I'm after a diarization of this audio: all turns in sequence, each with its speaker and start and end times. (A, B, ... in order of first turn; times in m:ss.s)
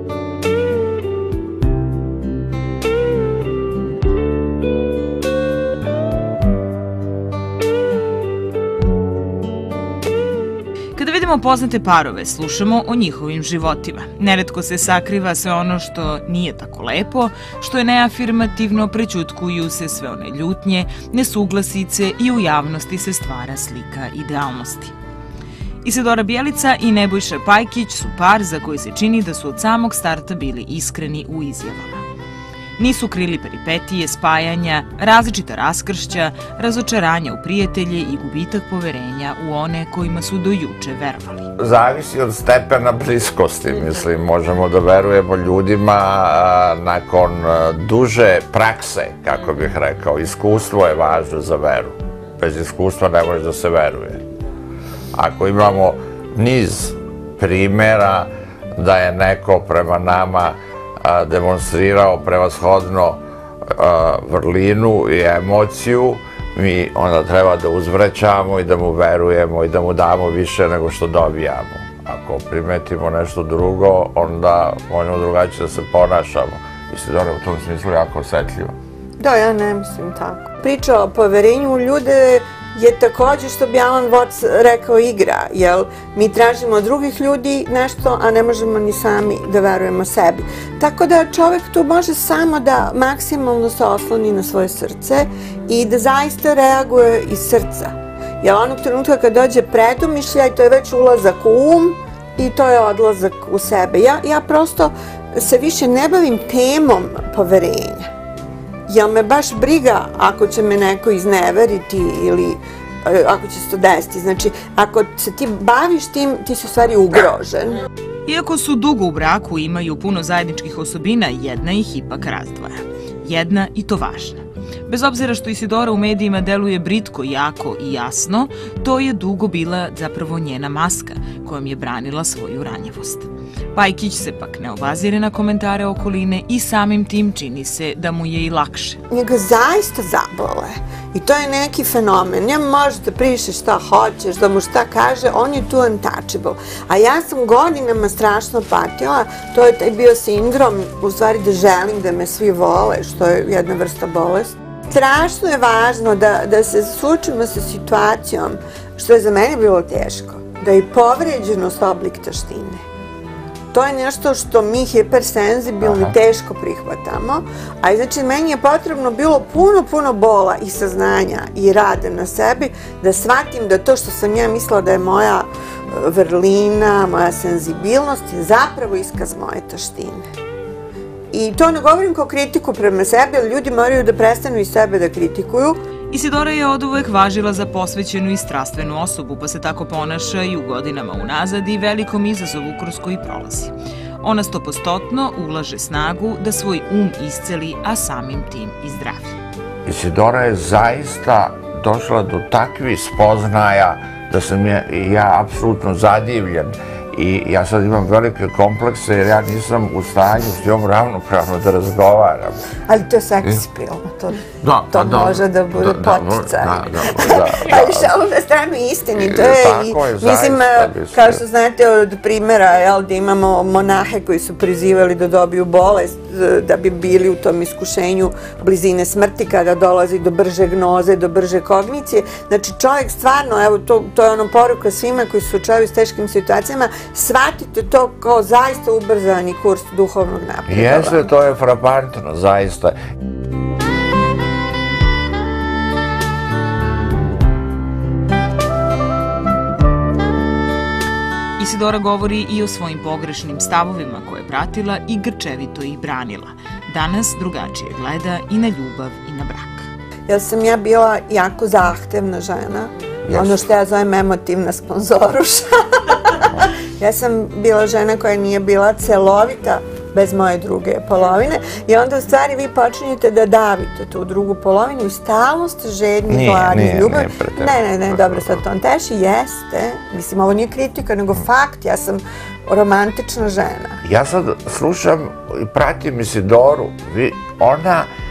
0:11.0-0:24.9 A
0:25.8-0:32.0 A
0:32.8-0:41.5 A
0:41.6-0:54.2 B
0:55.2-1:18.7 B
1:19.2-1:48.1 C
1:48.9-1:57.8 C
1:58.2-2:19.0 A
2:19.1-2:42.8 C
2:43.7-3:00.2 C
2:45.8-2:46.1 B
3:01.3-3:05.8 C
3:06.1-3:19.4 A
3:19.8-3:32.6 B
3:32.9-4:01.2 C
3:34.6-3:38.2 B
3:39.2-3:41.4 B
4:00.7-4:03.0 B
4:11.6-4:19.9 A
4:20.3-4:26.5 C
4:23.3-4:23.7 B
4:27.0-4:44.0 C
4:36.3-4:38.6 B
4:44.0-4:48.1 B